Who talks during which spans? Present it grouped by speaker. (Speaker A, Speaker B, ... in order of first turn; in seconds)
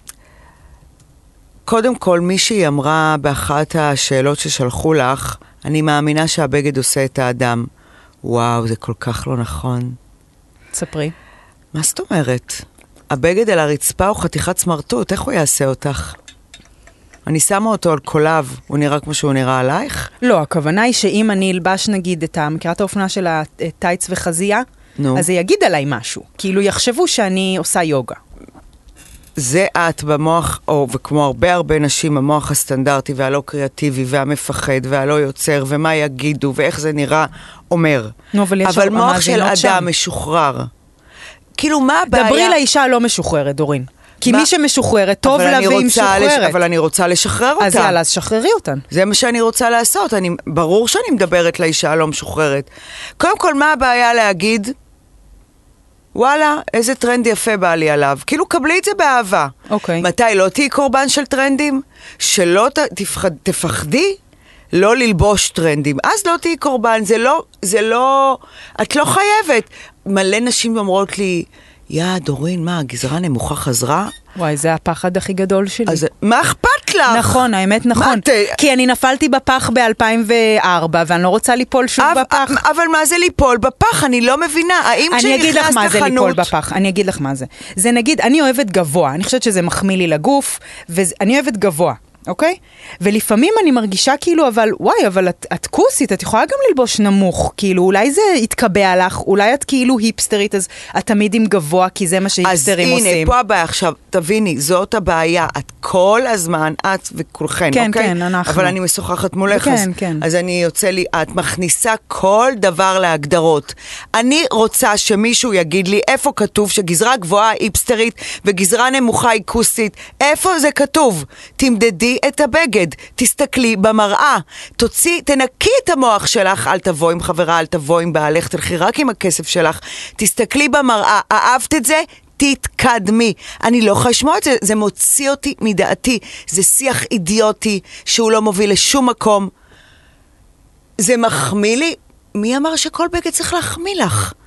Speaker A: 1.7-7.7, 8.2-10.0, 11.7-16.2, 17.3-20.1, 25.0-25.3, 29.4-40.7, 41.6-42.6, 44.2-44.5, 45.2-48.0, 48.9-54.7, 56.1-64.2, 64.7-74.1, 75.9-78.6, 82.0-86.5, 102.4-139.5, 141.0-144.3
Speaker B: 10.7-11.2, 20.2-28.2, 38.3-39.9, 42.1-46.6, 47.6-48.9, 59.7-60.1, 74.4-76.0, 77.1-82.6, 85.1-103.3, 107.7-108.8, 109.5-110.2